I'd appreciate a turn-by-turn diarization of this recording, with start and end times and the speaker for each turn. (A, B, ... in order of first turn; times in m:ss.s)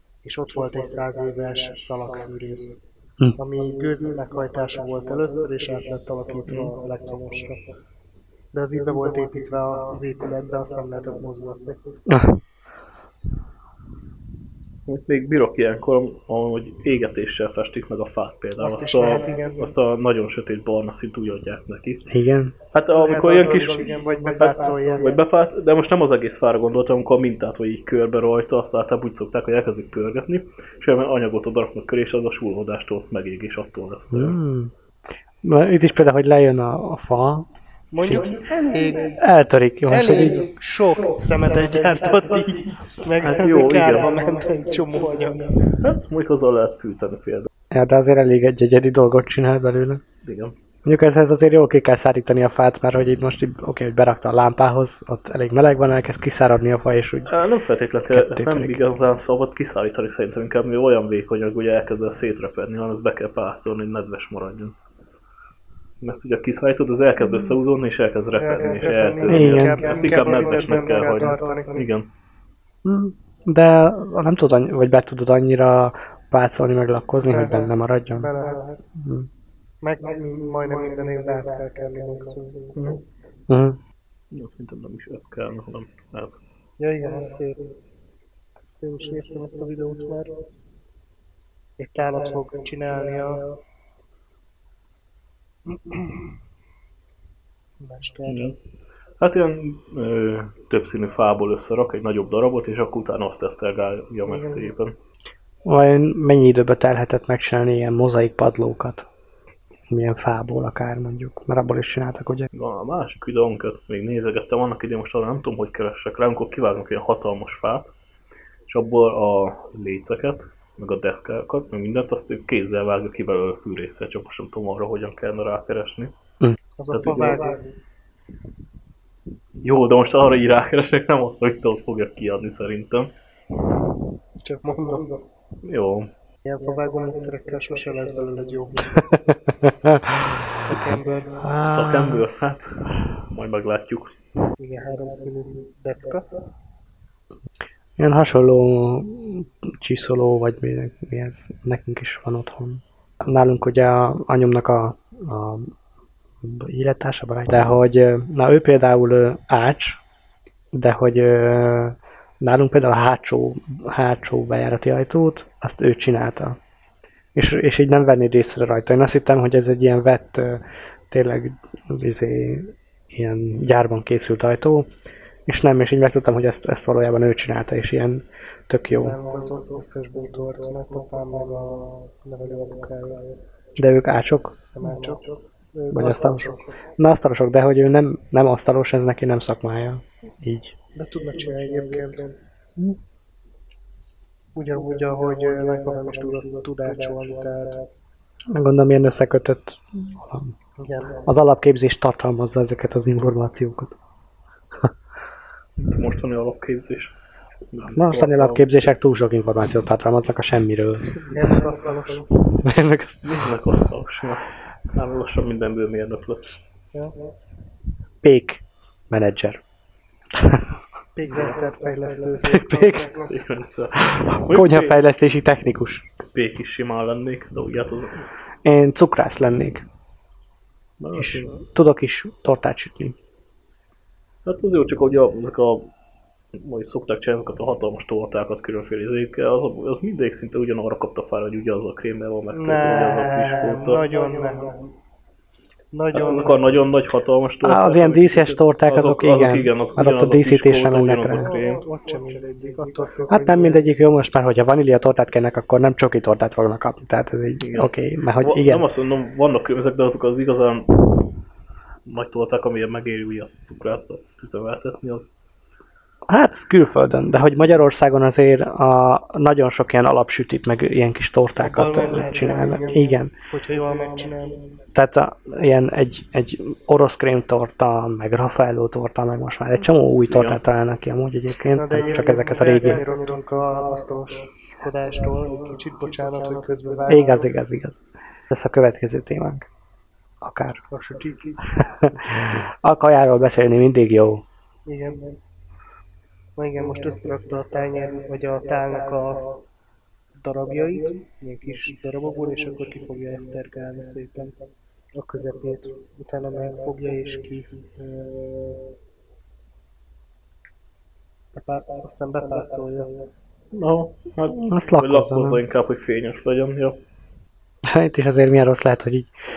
0:00.2-0:02.8 A
0:03.4-0:07.7 A
0:08.5-0:12.0 A
0:12.1-0:12.4 B
0:14.9-0:22.1 C
0:18.6-0:19.7 A
0:22.1-0:22.5 B
0:22.7-0:34.4 C
0:22.9-0:25.1 A
0:34.1-0:34.7 B
0:35.4-0:37.5 B
0:37.9-0:39.2 A
0:38.0-0:38.3 B
0:39.2-0:40.4 B
0:39.9-0:45.6 A
0:43.2-0:44.1 C
0:45.8-0:47.5 C
0:47.7-0:50.0 B
0:50.2-0:50.5 C
0:50.8-0:57.3 B
0:57.3-1:04.7 C
0:58.1-0:58.8 B
1:06.0-1:12.1 C
1:08.4-1:11.8 A
1:09.3-1:09.8 B
1:12.8-1:18.3 B
1:17.3-1:18.8 A
1:19.0-1:19.3 B
1:19.8-1:22.8 A
1:23.5-1:23.8 B
1:24.3-1:26.4 C
1:26.8-1:27.7 A
1:28.7-1:30.4 A
1:31.8-1:33.5 A
1:37.8-1:38.5 A
1:38.3-1:38.5 C
1:39.2-1:44.9 C
1:44.3-1:44.6 A
1:45.6-1:49.1 B
1:49.9-1:52.4 B
1:52.5-1:57.9 C
1:58.7-2:06.1 C
2:06.8-2:07.6 A
2:06.9-2:07.4 C
2:09.6-2:13.1 C
2:14.4-2:15.1 A
2:15.6-2:16.1 C
2:16.4-2:19.2 A
2:19.6-2:20.5 B
2:20.5-2:21.5 A
2:21.4-2:22.2 B
2:21.7-2:24.1 C
2:24.6-2:26.5 A
2:28.0-2:35.7 B
2:36.4-2:40.0 B
2:40.7-2:46.6 B
2:47.3-2:54.9 B
2:55.4-2:59.2 B
2:58.9-3:03.3 A
3:03.8-3:04.6 B
3:04.8-3:06.6 A
3:05.9-3:10.7 B
3:11.0-3:12.4 A
3:14.5-3:17.9 A
3:18.5-3:20.5 B
3:20.8-3:21.2 A
3:21.2-3:24.0 B
3:25.8-3:27.1 C
3:27.7-3:28.6 C
3:27.9-3:31.1 B
3:31.2-3:32.3 A
3:32.6-3:33.2 B
3:33.2-3:36.6 C
3:38.2-3:39.6 B
3:40.3-3:40.7 B
3:41.2-3:43.3 A
3:42.4-3:43.2 B
3:43.2-3:45.0 C
3:44.0-3:46.1 B
3:46.3-3:48.3 C
3:48.6-3:49.8 B
3:51.0-3:51.6 C
3:51.2-3:53.2 B
3:54.4-3:55.9 C
3:56.5-4:04.0 C
4:02.5-4:04.8 A
4:05.9-4:06.6 A
4:06.1-4:11.8 C
4:07.6-4:11.5 B
4:11.4-4:13.8 A
4:13.3-4:18.8 B
4:17.6-4:21.0 C
4:22.0-4:25.3 C
4:26.3-4:33.3 B
4:31.6-4:34.7 A
4:34.9-4:43.0 B
4:40.3-4:40.6 C
4:41.7-4:47.5 A
4:47.1-4:48.0 B
4:48.5-4:49.7 B
4:50.4-4:50.8 B
4:50.9-4:51.8 A
4:51.8-4:54.4 B
4:54.9-4:55.4 A
4:56.6-4:59.6 A
5:00.4-5:04.6 A
5:05.1-5:08.7 A
5:11.5-5:13.2 A
5:13.7-5:17.0 C
5:14.6-5:15.6 B
5:17.8-5:19.3 B